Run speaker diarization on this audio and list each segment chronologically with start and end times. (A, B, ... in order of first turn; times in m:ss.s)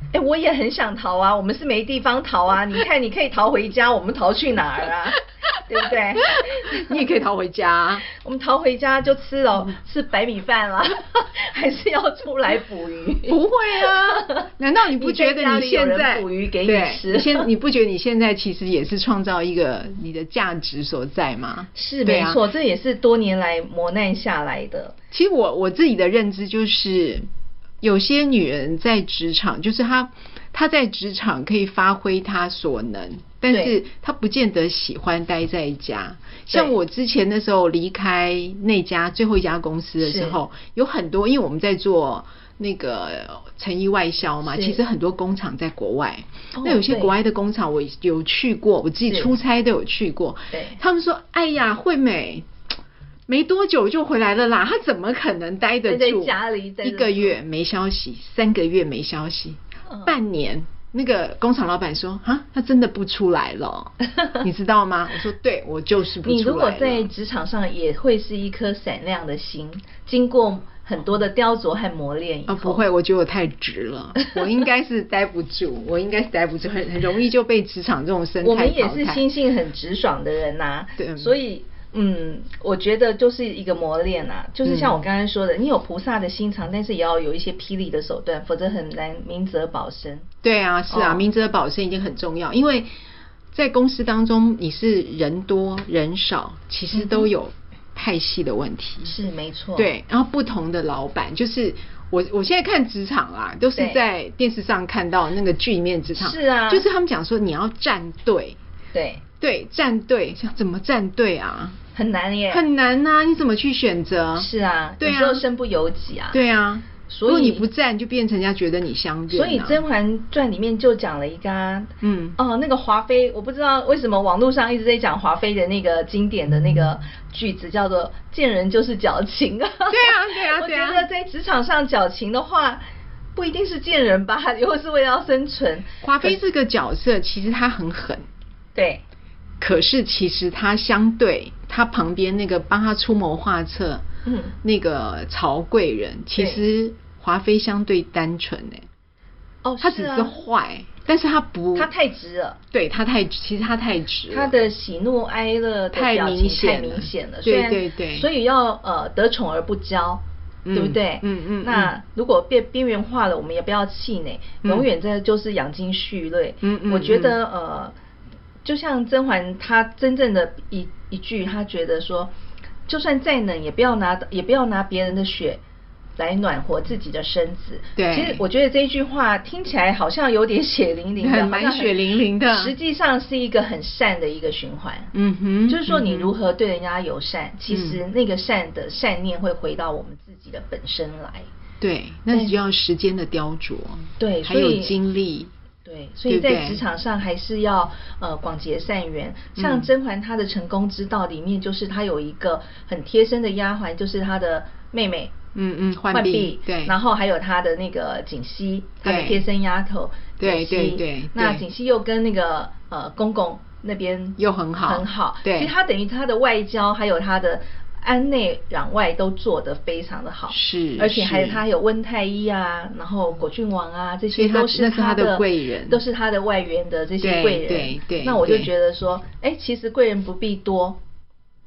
0:00.1-0:07.0 A
0:06.8-0:08.0 B
0:08.1-0:17.5 A
0:13.3-0:22.4 B
0:21.7-0:24.9 A
0:25.1-0:27.3 B
0:27.8-0:52.4 B
0:33.5-0:33.8 A
0:36.5-0:36.8 A
0:40.0-0:40.4 A
0:44.5-0:44.8 A
0:46.6-0:47.1 A
0:49.1-0:49.4 A
0:50.5-0:50.8 A
0:53.3-1:07.1 B
0:55.8-0:57.4 A
0:59.9-1:00.1 A
1:06.2-1:12.8 A
1:12.5-1:19.2 B
1:18.4-1:30.2 A
1:21.0-1:21.4 B
1:24.6-1:25.0 B
1:30.4-1:32.9 B
1:30.9-1:31.2 A
1:33.5-1:39.1 B
1:36.9-1:37.3 A
1:39.0-1:39.9 A
1:39.8-1:48.6 B
1:46.1-1:46.8 A
1:48.9-1:49.2 A
1:49.4-1:51.8 B
1:51.9-1:52.6 A
1:52.5-1:54.5 B
1:54.4-1:56.4 A
1:55.0-1:55.4 B
1:56.3-1:59.8 B
1:57.1-1:57.6 A
1:59.3-2:16.4 A
2:02.0-2:02.4 B
2:09.9-2:11.0 B
2:16.0-2:18.3 B
2:18.7-2:19.0 A
2:19.6-2:24.0 B
2:24.2-2:24.5 A
2:24.6-2:28.9 B
2:26.4-2:26.6 A
2:29.6-2:30.4 A
2:29.8-2:31.9 B
2:31.7-2:32.6 A
2:32.7-2:34.5 B
2:34.3-2:40.2 A
2:35.9-2:38.3 B
2:40.6-2:41.9 B
2:40.7-2:47.9 A
2:46.6-2:47.4 B
2:48.6-2:52.3 A
2:52.9-2:55.6 A
2:56.2-3:05.1 A
2:58.0-2:58.4 B
3:01.2-3:02.7 B
3:05.1-3:06.3 B
3:05.7-3:11.5 A
3:07.7-3:08.0 B
3:11.8-3:15.5 B
3:12.3-3:12.6 A
3:14.2-3:15.0 A
3:15.8-3:25.3 A
3:16.3-3:16.8 B
3:19.6-3:19.9 B
3:25.5-3:26.9 B
3:26.1-3:51.0 A
3:29.0-3:29.4 B
3:30.4-3:31.6 B
3:34.4-3:35.7 B
3:40.5-3:41.6 B
3:44.3-3:46.0 B
3:47.2-3:48.7 B